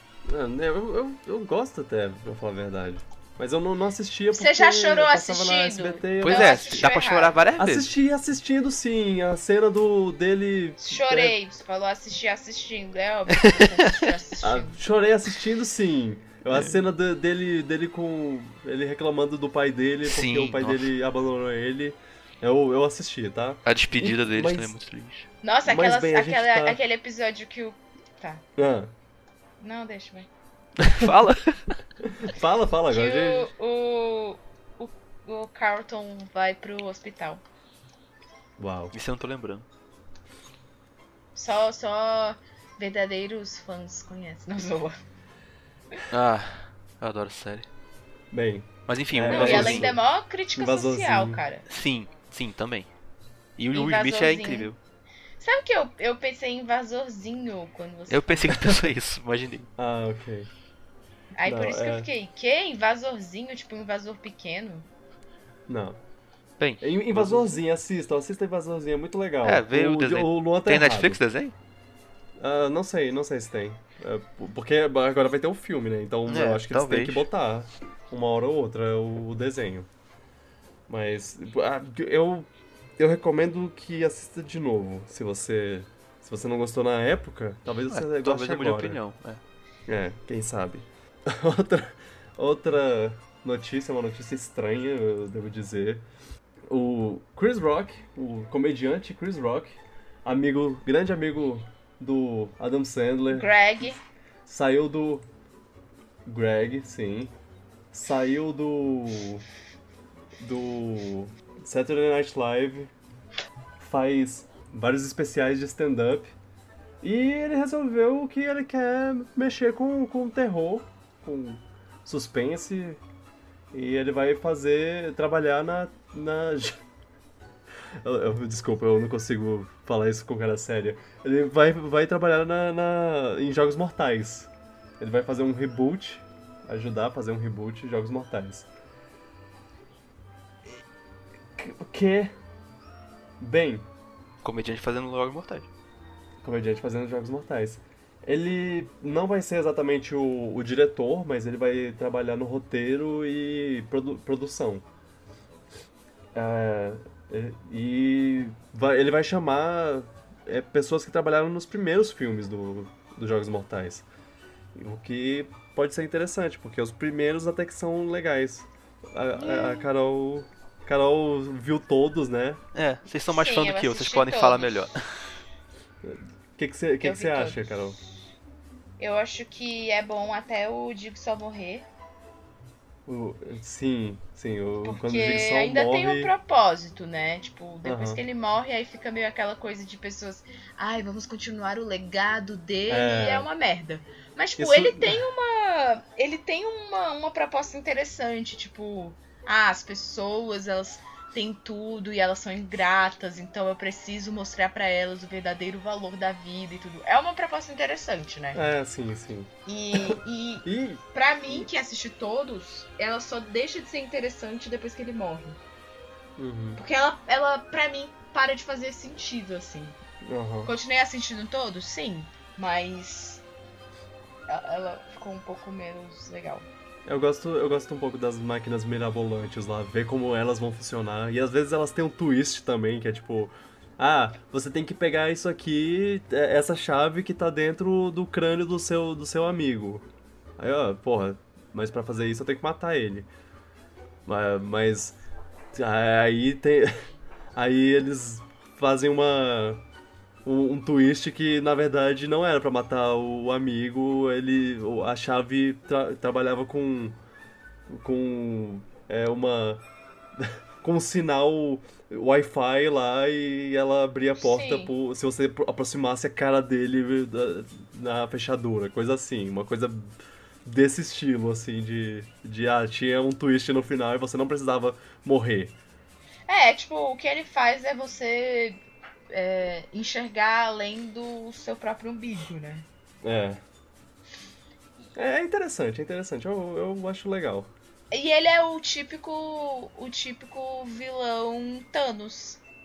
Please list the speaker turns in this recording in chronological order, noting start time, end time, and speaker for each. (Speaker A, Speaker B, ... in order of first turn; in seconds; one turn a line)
Speaker A: 0.3-6.8
Speaker B: 4.3-7.4
Speaker C: 6.2-7.9
Speaker A: 7.6-11.3
Speaker B: 10.8-14.8
Speaker C: 13.3-14.1
Speaker A: 14.4-24.8
Speaker C: 20.1-20.9
Speaker C: 23.6-25.3
Speaker B: 25.4-28.4
Speaker A: 25.7-26.8
Speaker A: 28.6-28.9
Speaker B: 29.6-30.3
Speaker C: 30.8-31.8
Speaker A: 32.0-33.5
Speaker B: 32.9-37.4
Speaker A: 38.6-38.9
Speaker C: 38.9-39.7
Speaker B: 41.4-44.9
Speaker C: 46.1-47.7
Speaker A: 48.3-50.0
Speaker C: 48.9-49.9
Speaker B: 49.3-51.6
Speaker A: 50.5-51.4
Speaker C: 51.7-52.9
Speaker C: 53.6-54.8
Speaker B: 53.7-54.7
Speaker B: 55.4-58.6
Speaker C: 58.1-59.7
Speaker A: 59.8-60.5
Speaker B: 61.4-64.9
Speaker A: 61.5-62.1
Speaker A: 65.7-66.0
Speaker C: 66.6-67.5
Speaker A: 66.8-71.2
Speaker C: 69.4-71.5
Speaker A: 72.4-79.9
Speaker C: 76.3-77.3
Speaker A: 80.9-89.0
Speaker C: 87.9-89.4
Speaker A: 89.9-96.0
Speaker A: 96.7-104.0
Speaker B: 103.3-104.0
Speaker A: 104.5-105.2
Speaker A: 106.3-107.3
Speaker A: 107.9-109.5
Speaker A: 110.4-112.9
Speaker A: 113.8-116.3
Speaker A: 117.0-123.0
Speaker A: 123.7-126.8
Speaker A: 128.0-134.5
Speaker A: 135.0-138.7
Speaker A: 141.6-142.3
Speaker A: 143.4-143.9
Speaker C: 144.4-145.7
Speaker A: 146.4-154.8
Speaker A: 156.3-164.1
Speaker A: 164.8-172.6
Speaker B: 169.4-169.7
Speaker C: 172.7-175.3
Speaker B: 173.3-174.9
Speaker A: 176.0-178.0
Speaker B: 177.0-177.9
Speaker B: 179.0-181.9
Speaker A: 183.1-186.3
Speaker B: 184.8-208.7
Speaker A: 187.8-188.2
Speaker A: 192.9-193.5
Speaker A: 194.6-195.2
Speaker A: 208.5-211.7
Speaker B: 209.7-215.6
Speaker A: 216.4-216.8
Speaker B: 216.8-220.0
Speaker A: 220.2-220.7
Speaker B: 220.7-223.4
Speaker B: 224.5-226.7
Speaker A: 227.1-240.1
Speaker A: 240.6-243.3
Speaker A: 244.3-245.2
Speaker A: 245.7-246.9
Speaker A: 247.6-249.8
Speaker A: 250.4-257.2
Speaker A: 257.9-259.8
Speaker A: 260.4-270.1
Speaker B: 264.4-264.9
Speaker A: 270.6-275.7
Speaker B: 276.5-282.9
Speaker A: 283.2-283.6
Speaker A: 285.2-287.7
Speaker B: 288.1-292.6